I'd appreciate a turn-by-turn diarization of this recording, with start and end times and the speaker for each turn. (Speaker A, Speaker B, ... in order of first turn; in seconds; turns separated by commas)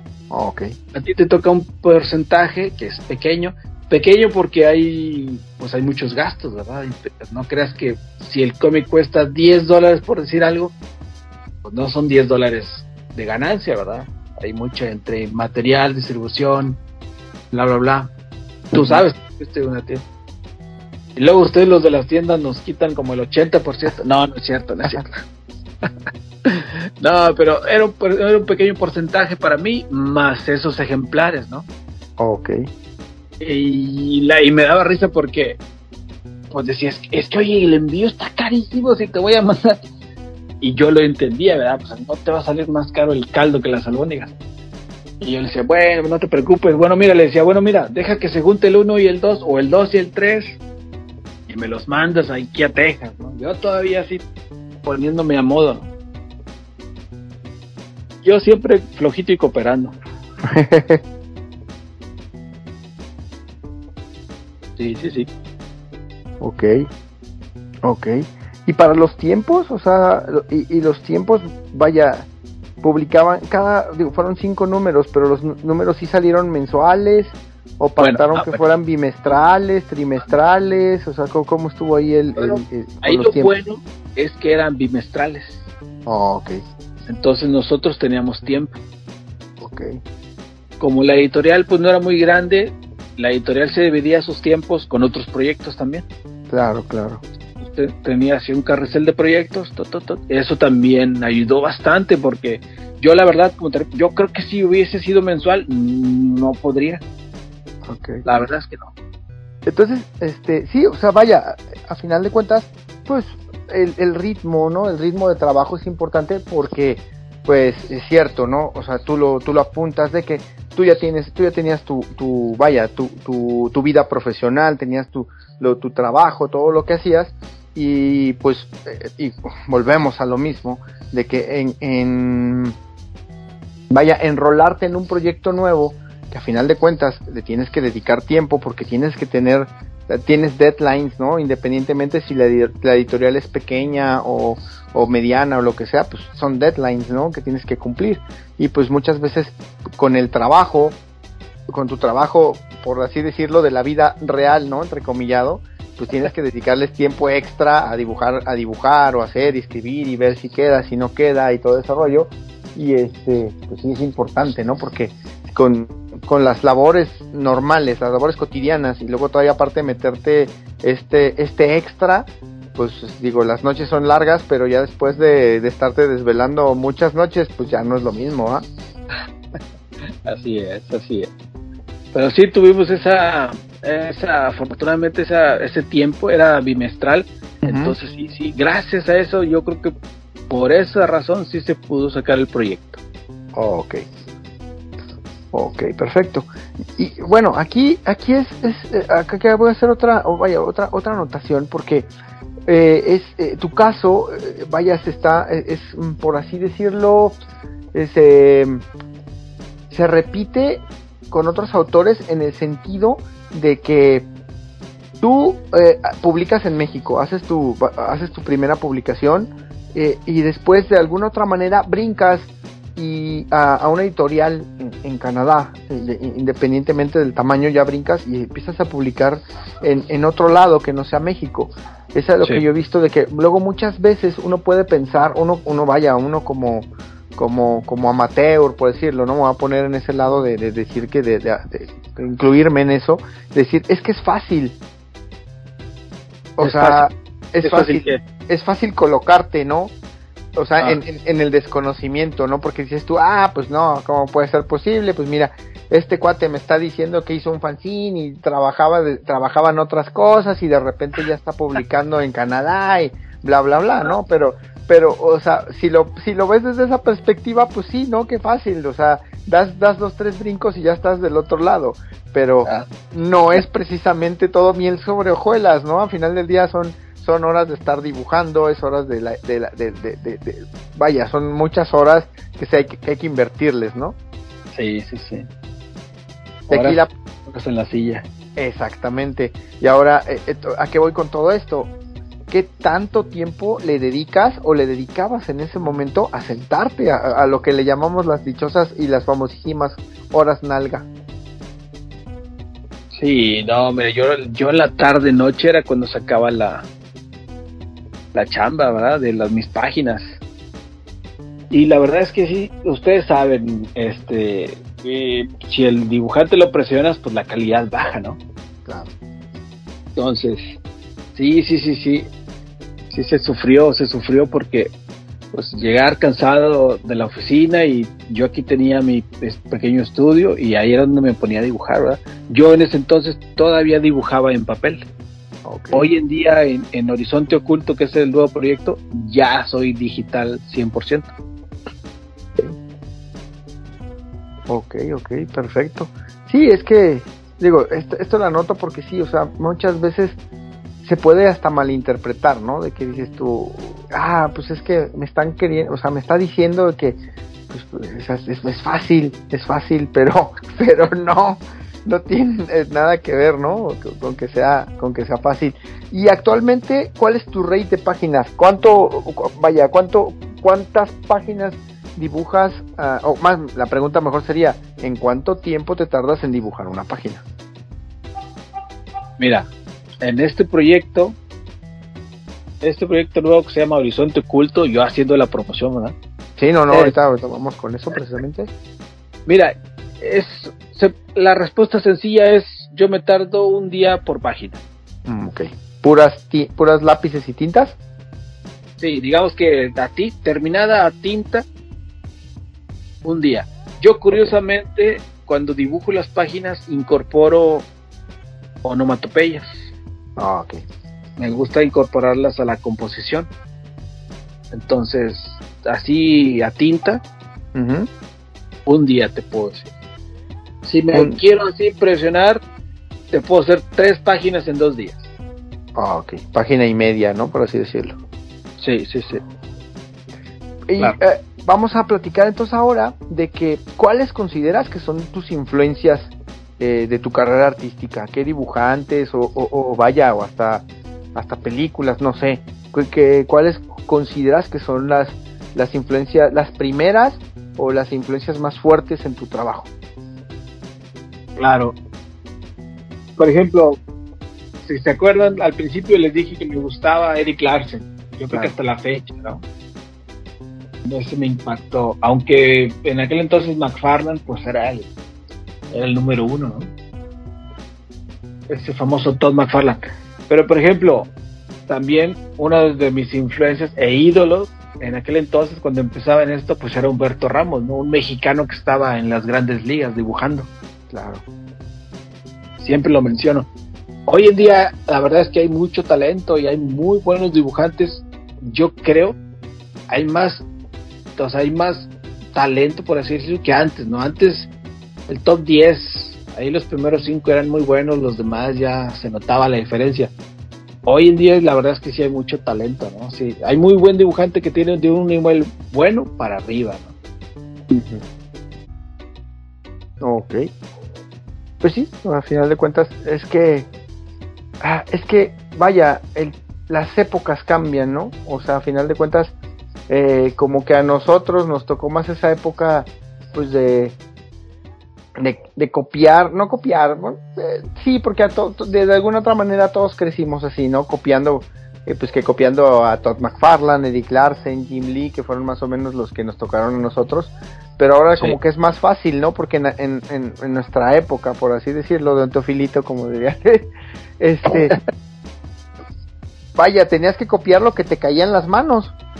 Speaker A: 0.3-0.7, Speaker B: 0.9-10.7, Speaker B: 11.6-16.8, Speaker B: 17.5-18.1, Speaker B: 18.7-20.0, Speaker A: 18.7-19.0, Speaker B: 21.1-25.2, Speaker B: 26.4-31.7, Speaker A: 32.2-32.6, Speaker B: 33.4-35.6, Speaker B: 36.5-39.8, Speaker B: 40.6-44.3, Speaker B: 45.2-50.6, Speaker B: 51.5-54.2, Speaker B: 54.8-55.9, Speaker B: 58.2-60.0, Speaker A: 60.4-61.0, Speaker B: 64.8-65.3, Speaker A: 66.4-66.9, Speaker A: 67.8-72.3, Speaker A: 72.8-83.5, Speaker B: 78.0-78.6, Speaker B: 82.3-85.6, Speaker A: 86.0-86.6, Speaker B: 87.1-88.8, Speaker A: 89.6-90.0, Speaker B: 90.8-96.0, Speaker A: 96.5-97.2, Speaker B: 97.6-107.0, Speaker A: 107.8-108.2, Speaker B: 108.2-108.9, Speaker A: 109.7-132.8, Speaker A: 133.9-151.0, Speaker A: 151.7-178.7, Speaker B: 180.3-181.3, Speaker B: 182.1-189.9, Speaker A: 187.6-187.9, Speaker B: 190.5-193.0, Speaker A: 193.5-194.0, Speaker A: 195.5-202.1, Speaker A: 202.7-207.4, Speaker A: 207.9-208.8, Speaker A: 209.9-214.3, Speaker A: 215.2-244.8, Speaker A: 246.6-249.9, Speaker B: 246.6-247.0, Speaker B: 247.6-248.2, Speaker A: 250.6-284.1, Speaker B: 284.7-285.5, Speaker A: 286.7-287.1, Speaker B: 286.7-288.2, Speaker A: 288.6-291.9, Speaker A: 292.5-301.1, Speaker B: 303.1-306.9, Speaker B: 308.3-310.4, Speaker B: 311.7-318.4, Speaker A: 318.9-319.1, Speaker B: 320.1-320.8, Speaker B: 321.3-322.3, Speaker B: 323.1-324.9, Speaker B: 325.5-335.1, Speaker A: 335.6-336.1, Speaker B: 335.9-341.3, Speaker A: 344.7-350.4, Speaker A: 351.0-357.2, Speaker A: 357.7-377.4, Speaker B: 379.4-379.7, Speaker B: 380.2-381.4, Speaker B: 382.8-386.1, Speaker A: 386.6-388.7, Speaker B: 389.5-394.8, Speaker A: 395.3-397.9, Speaker B: 399.0-401.7, Speaker B: 403.2-407.9, Speaker B: 408.8-409.8, Speaker A: 410.4-410.8, Speaker B: 411.4-413.5, Speaker B: 414.7-417.2, Speaker A: 417.7-418.1, Speaker B: 418.9-419.9, Speaker B: 420.8-422.6, Speaker A: 421.1-421.4, Speaker B: 423.3-425.3, Speaker A: 425.9-428.2, Speaker B: 428.8-429.4, Speaker A: 430.9-449.9, Speaker B: 451.6-452.0, Speaker B: 453.4-454.0, Speaker B: 454.8-459.6, Speaker B: 461.1-465.1, Speaker B: 465.9-466.9, Speaker B: 468.7-471.3, Speaker B: 471.9-480.7, Speaker A: 481.1-481.4, Speaker B: 482.8-483.7, Speaker B: 484.3-489.4, Speaker B: 490.1-490.7, Speaker B: 491.4-494.7, Speaker B: 495.3-500.3, Speaker B: 501.0-507.1, Speaker A: 507.9-508.2, Speaker A: 510.2-510.6, Speaker A: 511.8-513.9, Speaker A: 514.8-519.5, Speaker A: 520.1-524.1, Speaker A: 525.4-545.0, Speaker B: 544.7-545.0, Speaker A: 546.8-549.1